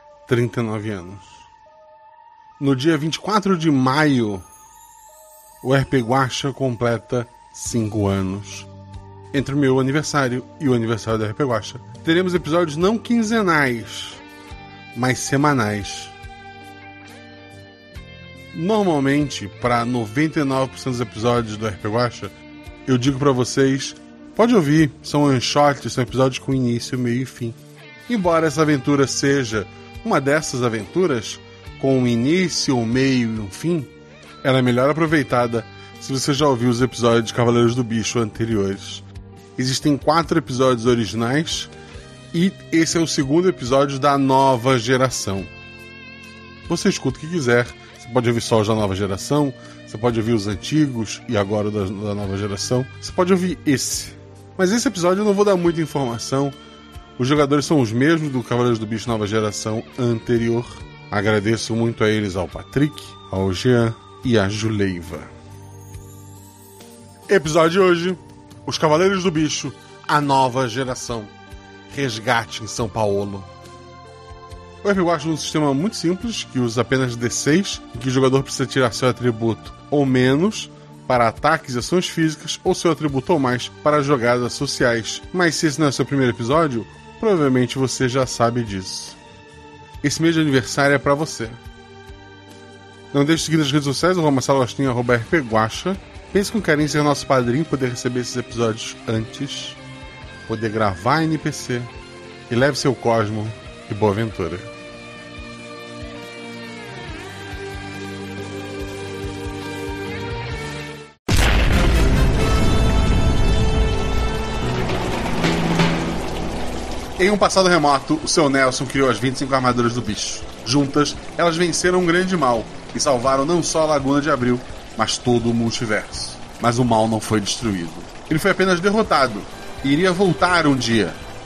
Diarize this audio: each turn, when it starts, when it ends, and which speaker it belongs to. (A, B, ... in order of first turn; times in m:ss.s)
0:00.3-0:01.4 A
0:02.6-0:04.4 A
0:05.6-0:08.7 A
0:09.3-0:14.2 A
0:14.9-0:16.1 A
0:18.5-0:22.3 A
0:22.9-0:33.9 A
0:34.4-0:39.0 A
0:39.6-0:41.7 A
0:42.3-0:45.5 A
0:46.7-0:56.6 A
0:57.2-1:05.3 A
1:07.3-1:11.3 A
1:11.9-1:13.5 A
1:14.8-1:29.2 A
1:30.0-1:31.6 A
1:33.1-1:39.8 A
1:40.5-1:41.9 A
1:42.5-1:44.7 A
1:57.2-2:11.2 A